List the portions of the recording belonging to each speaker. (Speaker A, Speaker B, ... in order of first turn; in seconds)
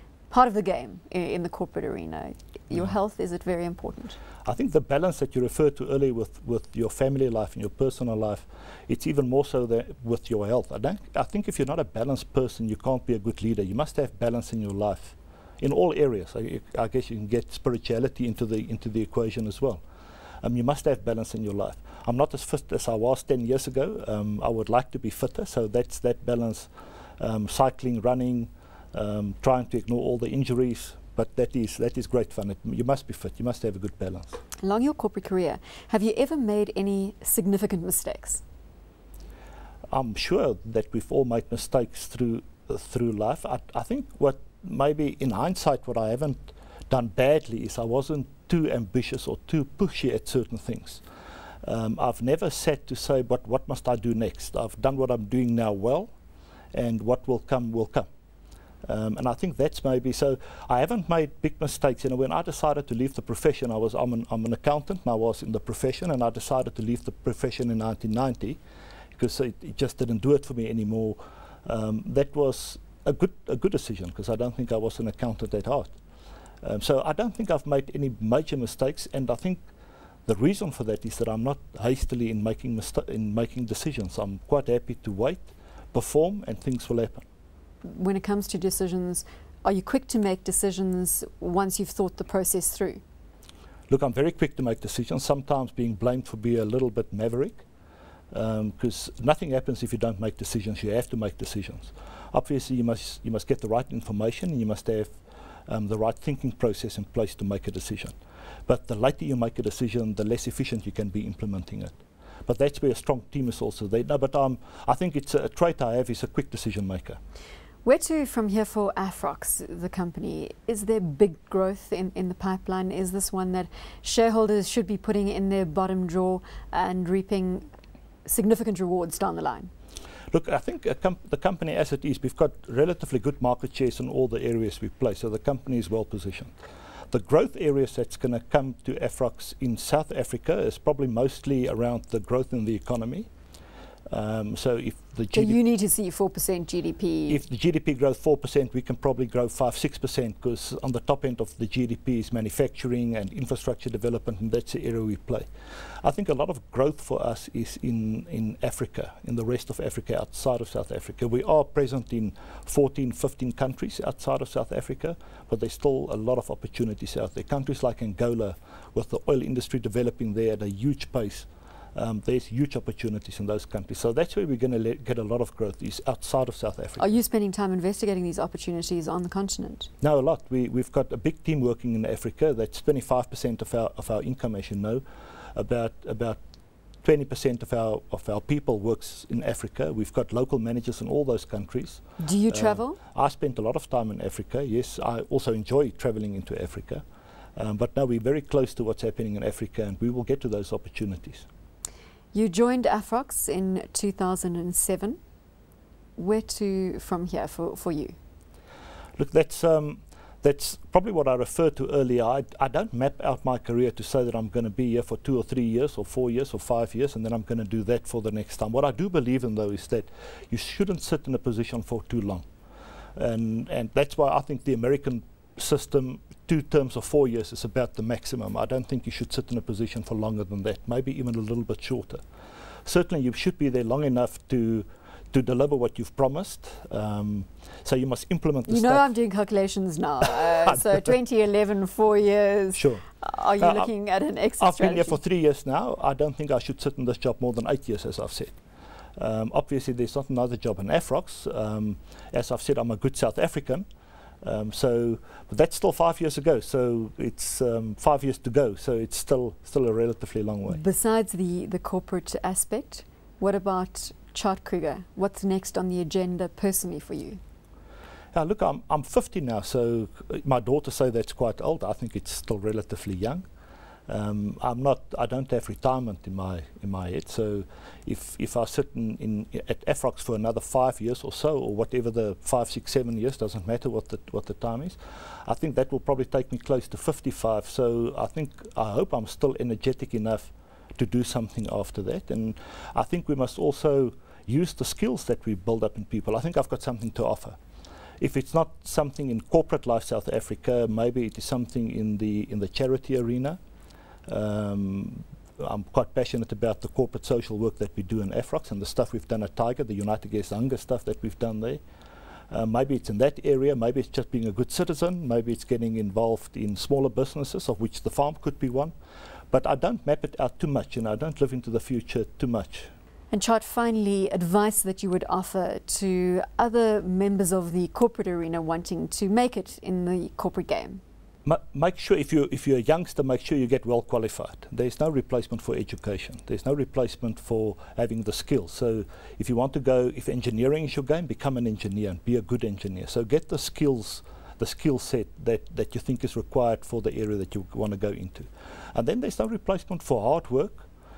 Speaker A: 0.3-4.2, 34.6-38.4, 87.8-93.0, 117.8-127.7, 128.2-129.7, 145.3-147.4, 177.0-179.9, 192.2-193.0, 202.3-205.2, 206.2-208.2, 238.7-245.2, 260.7-267.4, 323.3-331.0
Speaker B: 4.4-19.8, 20.4-34.4, 39.9-51.0, 51.6-56.1, 56.7-58.1, 58.8-68.6, 69.1-75.9, 76.6-79.6, 80.3-87.2, 93.9-97.6, 98.3-105.2, 105.7-108.1, 108.7-117.2, 130.3-136.5, 137.1-143.3, 144.1-145.6, 147.3-155.5, 156.0-177.1, 180.0-185.0, 185.5-186.4, 187.0-197.0, 197.6-201.4, 209.2-222.4, 223.2-232.2, 232.8-239.1, 242.7-243.9, 244.6-248.6, 249.2-253.8, 254.4-260.8, 268.3-273.4, 274.1-297.6, 298.2-303.6, 304.3-311.8, 312.5-318.9, 319.5-322.9, 331.4-350.9